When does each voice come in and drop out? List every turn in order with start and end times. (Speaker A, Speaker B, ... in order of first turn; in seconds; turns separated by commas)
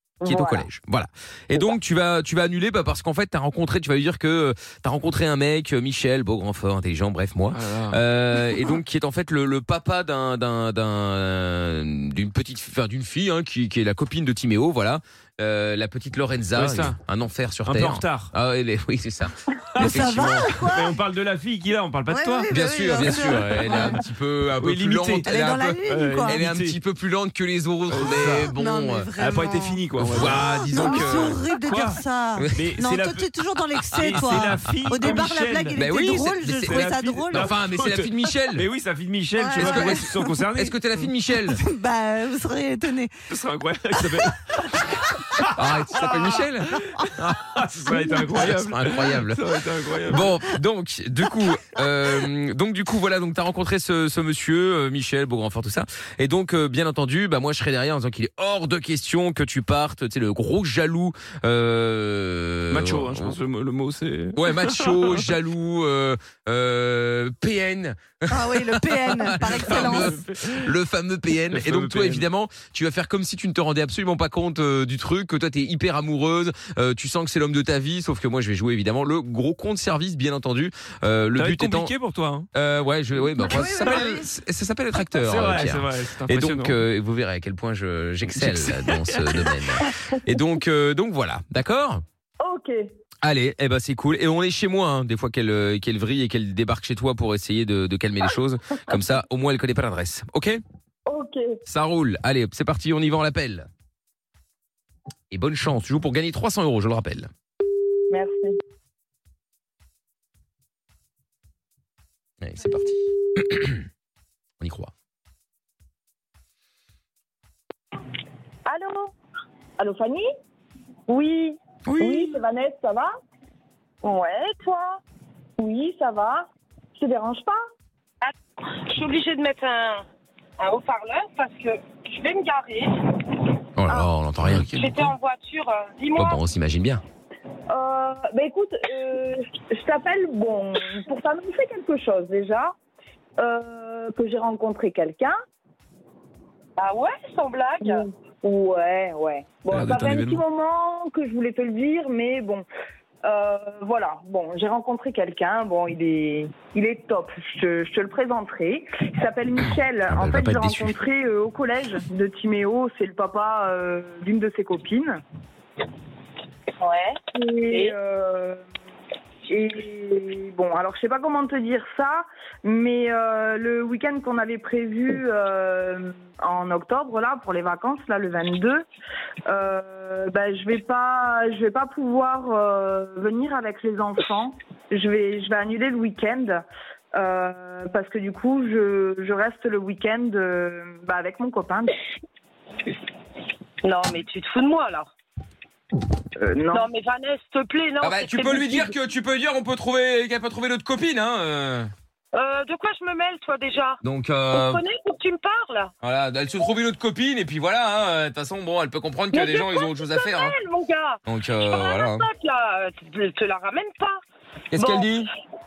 Speaker A: 0.2-0.7, Speaker B: 0.2-20.6, Speaker C: 7.5-8.0, Speaker C: 16.5-17.0, Speaker C: 17.6-18.3, Speaker C: 19.7-20.2, Speaker D: 19.8-21.0, Speaker C: 20.7-23.9, Speaker D: 22.1-24.0, Speaker B: 22.5-29.1, Speaker C: 24.6-25.4, Speaker D: 25.2-26.4, Speaker C: 25.9-26.8, Speaker C: 27.9-28.5, Speaker D: 28.0-37.6, Speaker C: 29.1-32.0, Speaker B: 30.0-31.4, Speaker B: 32.4-32.6, Speaker C: 32.5-35.8, Speaker B: 34.1-34.7, Speaker B: 35.8-38.7, Speaker C: 36.5-41.1, Speaker D: 39.4-40.4, Speaker B: 39.5-41.6, Speaker D: 41.6-43.1, Speaker C: 43.3-50.4, Speaker D: 43.9-44.3, Speaker B: 45.5-47.3, Speaker B: 47.9-49.4, Speaker B: 50.1-63.3, Speaker C: 62.7-65.2, Speaker B: 64.3-81.9, Speaker D: 68.3-70.2, Speaker C: 69.4-70.7, Speaker C: 71.5-72.2, Speaker C: 81.3-82.5, Speaker B: 82.5-92.0, Speaker A: 83.5-84.0, Speaker C: 83.6-84.1, Speaker C: 85.1-86.8, Speaker C: 88.3-89.5, Speaker A: 92.4-92.8, Speaker B: 93.2-100.6, Speaker A: 101.0-101.5, Speaker B: 101.7-103.7, Speaker B: 105.3-107.3, Speaker A: 108.1-108.5, Speaker B: 112.4-113.8, Speaker B: 114.6-114.9, Speaker A: 118.7-119.1, Speaker A: 119.8-120.2, Speaker E: 121.1-121.5, Speaker B: 121.8-122.4, Speaker A: 122.0-123.1, Speaker A: 124.0-125.0, Speaker A: 125.6-127.6, Speaker E: 128.9-130.0, Speaker E: 130.6-134.1, Speaker B: 133.8-135.1, Speaker E: 134.6-136.4, Speaker B: 136.1-137.0, Speaker A: 137.7-142.7, Speaker A: 143.4-145.3, Speaker E: 146.8-148.0, Speaker A: 147.8-152.7, Speaker B: 149.7-150.4, Speaker A: 153.2-165.2, Speaker B: 160.0-160.9, Speaker E: 166.8-167.2, Speaker A: 167.3-168.6, Speaker E: 167.7-167.9, Speaker A: 169.5-178.8, Speaker A: 179.5-186.6, Speaker A: 187.2-191.9, Speaker E: 193.8-195.1, Speaker A: 196.4-196.9, Speaker E: 196.7-198.9, Speaker B: 198.0-201.9, Speaker E: 202.3-204.0, Speaker B: 204.0-204.8, Speaker E: 204.5-205.9, Speaker B: 206.0-210.5, Speaker E: 209.3-214.2, Speaker B: 211.2-212.2, Speaker B: 214.7-215.3